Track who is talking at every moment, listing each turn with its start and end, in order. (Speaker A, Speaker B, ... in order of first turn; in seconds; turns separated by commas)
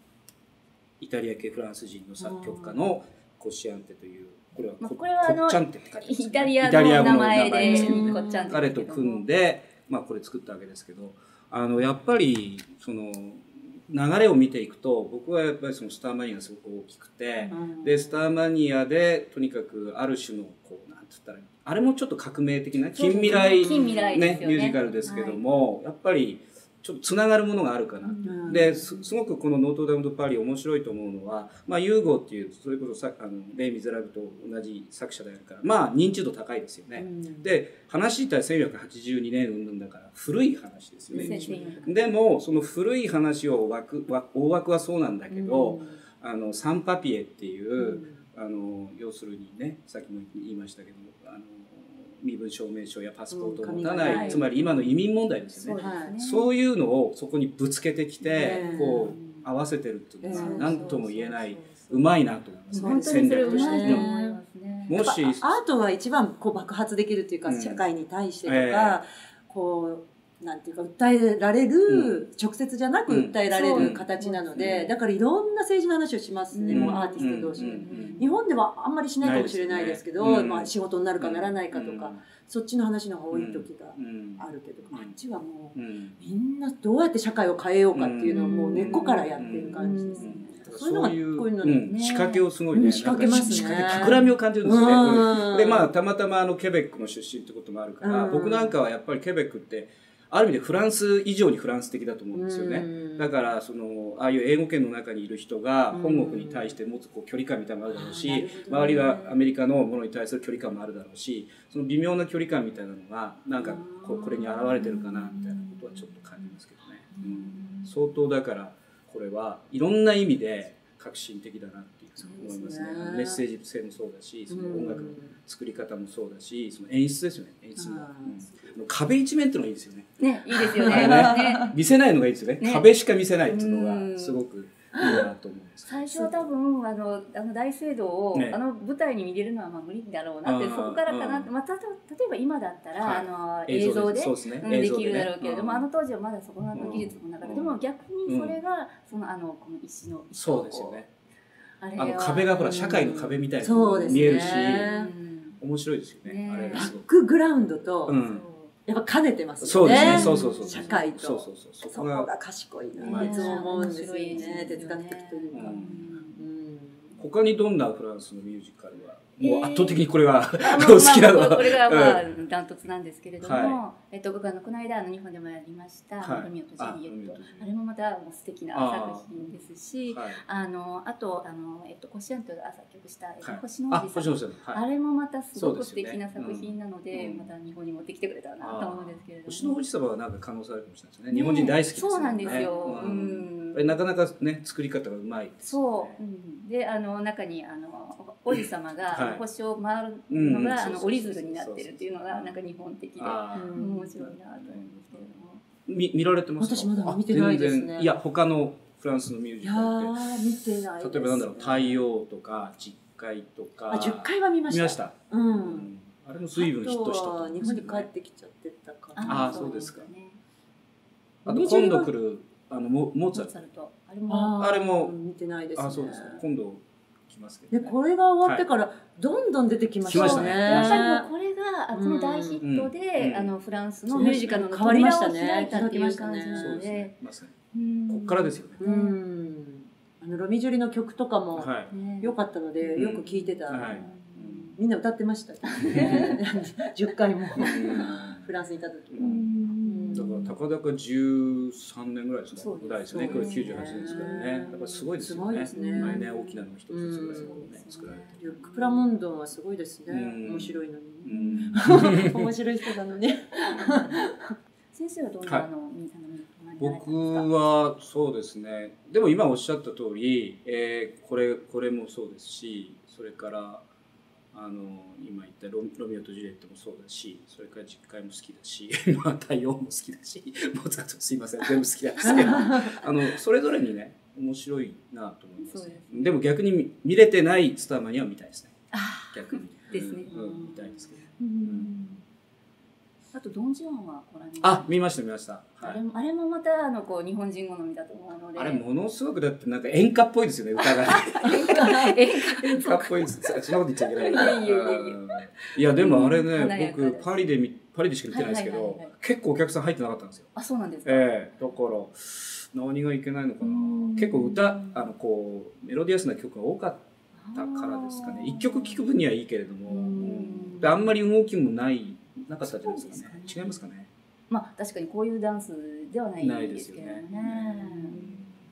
Speaker A: 1.0-64.1, Speaker B: 2.2-2.9, Speaker C: 4.8-9.2, Speaker B: 7.6-8.6, Speaker B: 17.5-18.1, Speaker C: 22.9-25.4, Speaker B: 23.3-25.1, Speaker C: 28.0-29.0, Speaker B: 28.2-28.8, Speaker B: 37.0-37.5, Speaker B: 41.1-41.9, Speaker C: 41.1-42.0, Speaker B: 45.3-46.0, Speaker B: 47.8-48.2, Speaker B: 53.3-54.9, Speaker C: 54.0-54.4, Speaker C: 55.5-56.5, Speaker B: 55.7-56.1, Speaker B: 58.2-59.1, Speaker C: 58.3-59.5, Speaker B: 60.2-61.0, Speaker C: 60.3-62.1, Speaker C: 62.7-65.0, Speaker B: 62.8-64.4, Speaker A: 64.9-65.6, Speaker B: 64.9-91.8, Speaker A: 67.5-67.8, Speaker A: 68.5-69.0, Speaker A: 71.9-72.2, Speaker A: 73.1-74.9, Speaker C: 73.5-74.9, Speaker C: 76.5-78.3, Speaker A: 76.7-78.2, Speaker A: 79.2-82.2, Speaker A: 83.3-85.2, Speaker A: 85.8-86.2, Speaker A: 87.9-136.4, Speaker C: 88.2-90.6, Speaker C: 91.9-92.5, Speaker B: 92.7-95.9, Speaker C: 93.2-94.3, Speaker B: 98.0-98.8, Speaker B: 102.3-103.3, Speaker B: 105.9-106.8, Speaker B: 107.9-109.4, Speaker B: 113.6-115.8, Speaker C: 114.8-115.4, Speaker B: 117.2-117.9, Speaker C: 117.5-117.8, Speaker B: 122.2-123.4, Speaker B: 124.5-125.3, Speaker B: 127.8-128.8, Speaker C: 130.2-131.8, Speaker B: 130.6-131.7, Speaker C: 132.6-132.9, Speaker C: 133.4-134.4, Speaker C: 135.9-151.1, Speaker A: 138.3-138.6, Speaker A: 140.4-141.5, Speaker A: 143.0-145.9, Speaker A: 146.7-148.6, Speaker A: 150.3-151.1, Speaker C: 151.8-153.4, Speaker A: 152.0-154.9, Speaker B: 153.6-155.1, Speaker C: 154.0-155.6, Speaker A: 155.6-157.1, Speaker C: 156.2-156.9, Speaker B: 156.7-158.2, Speaker A: 158.1-158.4, Speaker C: 158.2-158.7, Speaker B: 158.9-165.8, Speaker A: 159.6-162.3, Speaker C: 159.8-161.1, Speaker C: 163.0-166.4, Speaker A: 163.0-163.7, Speaker A: 164.4-164.8, Speaker A: 165.5-166.0, Speaker B: 166.4-167.2, Speaker A: 167.2-172.2, Speaker C: 169.4-170.1, Speaker C: 170.6-189.8, Speaker A: 173.4-173.8, Speaker A: 176.2-177.7, Speaker A: 178.7-180.4, Speaker A: 183.4-184.8, Speaker A: 185.5-187.5, Speaker A: 188.6-196.2, Speaker C: 191.3-194.0, Speaker B: 192.4-193.4, Speaker C: 195.6-205.6, Speaker A: 199.1-199.4, Speaker A: 200.3-205.2, Speaker B: 203.5-204.2, Speaker A: 205.9-210.3, Speaker B: 206.6-208.1, Speaker B: 209.6-212.0, Speaker A: 211.0-218.1, Speaker B: 213.9-215.9, Speaker B: 216.6-219.9, Speaker C: 217.6-217.9, Speaker C: 219.2-220.4, Speaker A: 219.2-220.1, Speaker A: 221.4-223.5, Speaker B: 221.5-222.1, Speaker C: 223.3-224.6, Speaker B: 224.3-226.4, Speaker A: 224.6-225.1, Speaker A: 225.8-228.7, Speaker B: 227.7-231.3, Speaker A: 230.0-231.1, Speaker C: 230.1-237.1, Speaker B: 231.9-232.6, Speaker A: 232.6-233.5, Speaker A: 234.1-234.7, Speaker B: 234.2-236.8, Speaker A: 236.6-237.5, Speaker C: 237.7-239.2, Speaker A: 238.1-238.8, Speaker B: 238.8-244.1, Speaker A: 241.6-241.9, Speaker C: 241.9-244.8, Speaker A: 243.0-244.7, Speaker B: 244.8-250.4, Speaker C: 245.8-246.4, Speaker A: 245.9-246.3, Speaker A: 247.6-248.4, Speaker C: 247.6-248.2, Speaker C: 249.2-250.5, Speaker A: 250.1-258.4, Speaker C: 252.5-255.0, Speaker B: 253.1-256.2, Speaker C: 255.7-256.6, Speaker B: 256.9-257.7, Speaker C: 257.3-259.1, Speaker B: 258.4-264.5, Speaker A: 260.1-262.4, Speaker C: 261.3-261.8, Speaker C: 263.7-264.2, Speaker C: 264.9-267.5, Speaker A: 266.8-273.9, Speaker A: 274.5-288.8, Speaker C: 282.2-283.0, Speaker B: 282.2-282.9, Speaker C: 285.6-286.4, Speaker C: 288.9-290.6, Speaker A: 289.3-291.9, Speaker B: 290.3-290.8, Speaker C: 291.4-292.2, Speaker C: 293.3-295.0, Speaker A: 294.6-296.0, Speaker C: 295.8-298.8, Speaker A: 298.6-310.5, Speaker C: 300.8-307.5, Speaker C: 308.3-309.1, Speaker C: 310.6-311.8, Speaker A: 311.1-317.0, Speaker C: 313.6-315.1, Speaker C: 317.4-319.1, Speaker A: 317.5-324.1, Speaker C: 319.9-321.1, Speaker C: 322.6-323.9, Speaker C: 324.5-328.3, Speaker A: 326.4-328.6